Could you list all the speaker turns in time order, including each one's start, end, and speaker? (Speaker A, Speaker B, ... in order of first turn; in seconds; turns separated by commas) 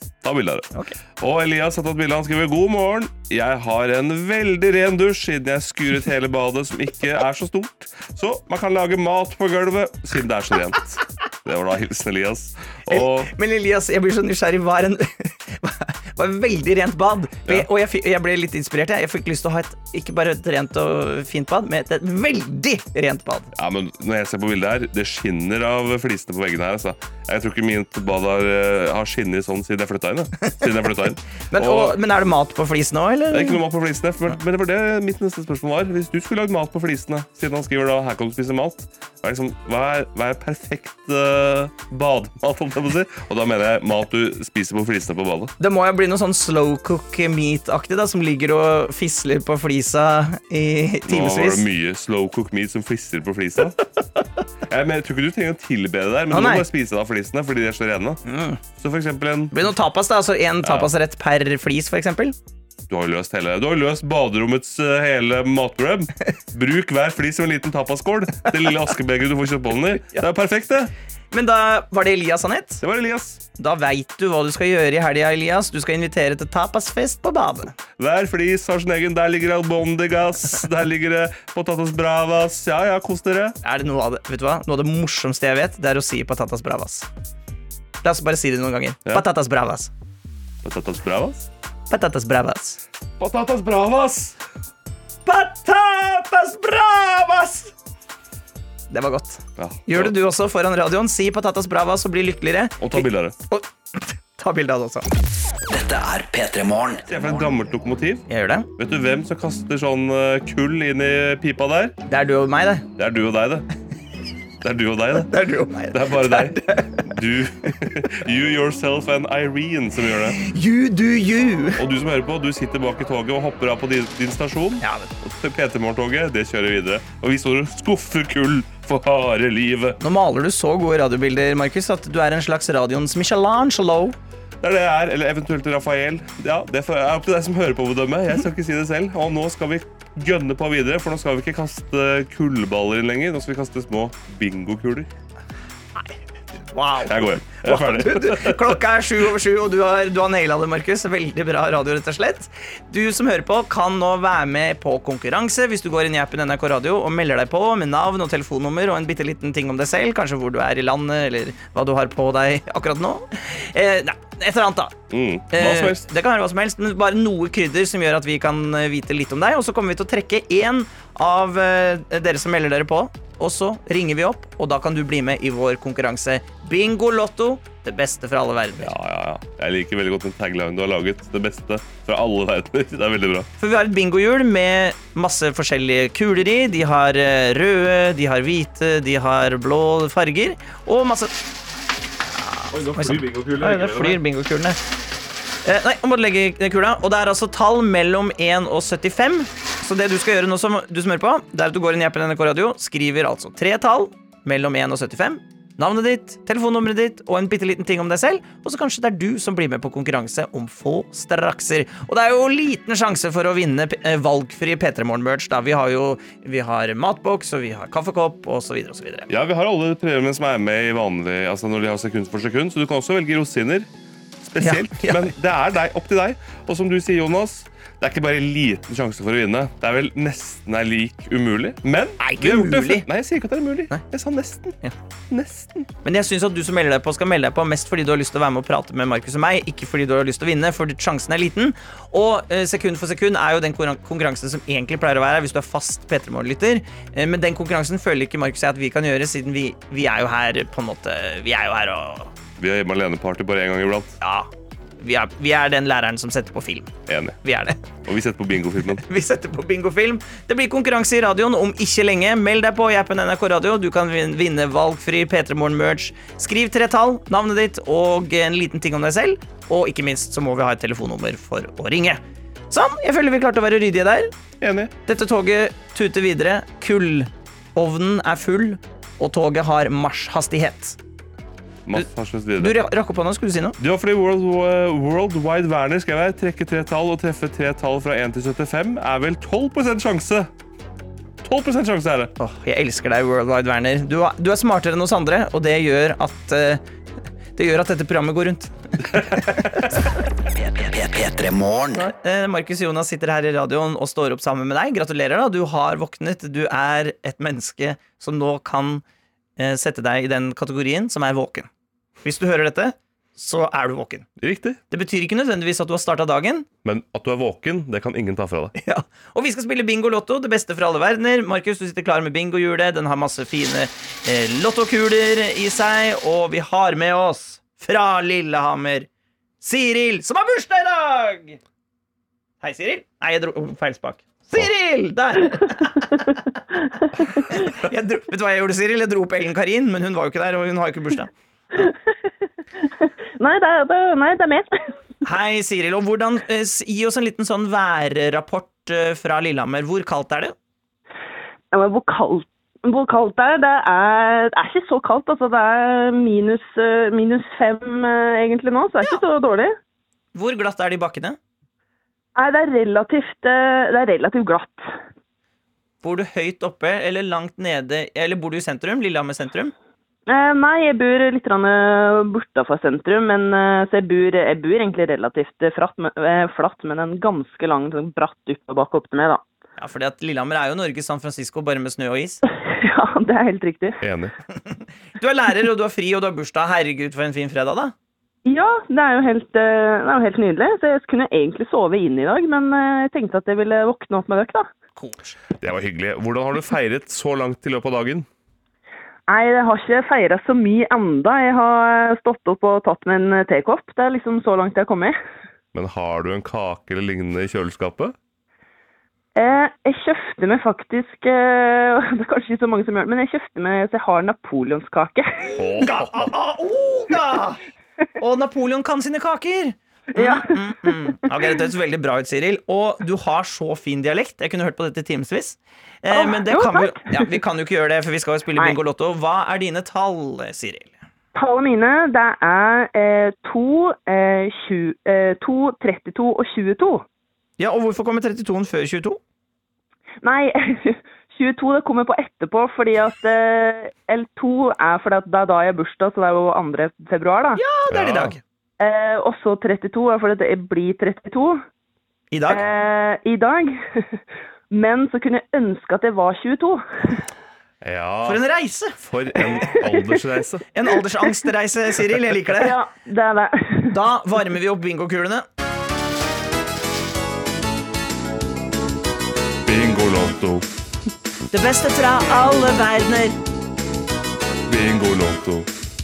Speaker A: 0.2-13.3, Speaker B: 12.9-23.5, Speaker A: 23.5-32.0, Speaker B: 31.5-33.6, Speaker A: 33.3-45.5, Speaker B: 45.6-51.6, Speaker A: 51.1-53.8, Speaker A: 54.7-58.2, Speaker B: 56.3-56.7, Speaker B: 58.2-58.6, Speaker A: 58.8-59.5, Speaker B: 59.5-62.4, Speaker A: 60.6-60.9, Speaker A: 62.9-70.9, Speaker B: 71.3-72.8, Speaker A: 72.8-73.4, Speaker B: 73.6-77.8, Speaker A: 78.0-83.6, Speaker B: 83.6-87.1, Speaker B: 88.0-89.9, Speaker A: 90.6-91.5, Speaker B: 91.9-92.8, Speaker A: 93.2-94.4, Speaker B: 95.2-97.7, Speaker B: 98.9-105.1, Speaker A: 99.6-100.1, Speaker A: 102.8-103.4, Speaker C: 105.7-107.5, Speaker A: 107.1-112.0, Speaker B: 108.3-108.7, Speaker B: 112.1-112.8, Speaker A: 113.0-113.7, Speaker A: 114.6-115.3, Speaker B: 115.2-117.1, Speaker A: 115.9-120.4, Speaker B: 120.3-121.8, Speaker A: 121.8-130.0, Speaker B: 124.8-125.1, Speaker B: 130.0-134.2, Speaker A: 134.6-145.1, Speaker B: 146.7-164.9, Speaker A: 147.1-148.8, Speaker A: 165.1-166.1, Speaker B: 165.5-178.9, Speaker A: 178.8-183.5, Speaker B: 183.6-191.3, Speaker B: 192.4-194.8, Speaker A: 192.7-194.2, Speaker B: 195.7-219.3, Speaker A: 219.3-223.9, Speaker A: 224.4-234.8, Speaker B: 224.6-225.3, Speaker B: 232.2-233.1, Speaker A: 235.3-235.9, Speaker B: 236.0-252.3, Speaker A: 252.6-254.2, Speaker B: 254.2-254.5, Speaker B: 255.0-256.9, Speaker A: 257.1-257.4, Speaker B: 257.4-257.8, Speaker A: 258.0-259.0, Speaker B: 259.0-274.3, Speaker A: 274.6-274.9, Speaker B: 275.1-281.0, Speaker A: 281.9-282.9, Speaker B: 282.6-283.8, Speaker A: 283.8-290.5, Speaker A: 291.4-292.3, Speaker B: 292.4-296.8, Speaker B: 297.6-299.8, Speaker C: 300.5-302.1, Speaker B: 302.0-309.0, Speaker B: 309.6-311.7, Speaker B: 312.2-314.3, Speaker A: 314.4-314.8, Speaker B: 314.9-316.7, Speaker A: 316.8-318.7, Speaker B: 318.8-329.1, Speaker B: 329.6-331.6, Speaker B: 332.6-336.3, Speaker D: 336.1-336.4, Speaker D: 337.0-337.7, Speaker B: 337.3-341.3, Speaker D: 343.0-344.9, Speaker B: 345.2-350.6, Speaker D: 351.7-359.7, Speaker B: 360.4-361.4, Speaker D: 362.4-364.9, Speaker B: 366.0-369.7, Speaker D: 370.3-379.4, Speaker B: 379.8-382.4, Speaker D: 382.7-384.0, Speaker A: 384.0-384.3, Speaker B: 384.7-387.9, Speaker D: 388.5-394.7, Speaker B: 395.0-395.4, Speaker A: 395.6-398.3, Speaker D: 399.3-405.2, Speaker A: 405.7-408.1, Speaker D: 409.4-415.6, Speaker A: 415.6-416.3, Speaker B: 415.8-417.6, Speaker B: 418.2-430.9, Speaker D: 420.1-421.5, Speaker D: 426.1-427.3, Speaker D: 431.4-437.0, Speaker B: 437.6-439.2, Speaker D: 440.2-447.6, Speaker B: 447.6-448.4, Speaker A: 447.9-448.4, Speaker D: 448.8-451.6, Speaker B: 452.3-452.6, Speaker D: 452.5-454.1, Speaker D: 454.7-457.2, Speaker A: 457.8-458.4, Speaker B: 458.2-459.5, Speaker A: 459.0-460.6, Speaker B: 460.7-462.8, Speaker D: 462.6-464.0, Speaker B: 463.9-465.5, Speaker A: 469.6-470.7, Speaker B: 471.5-473.4, Speaker A: 474.7-475.7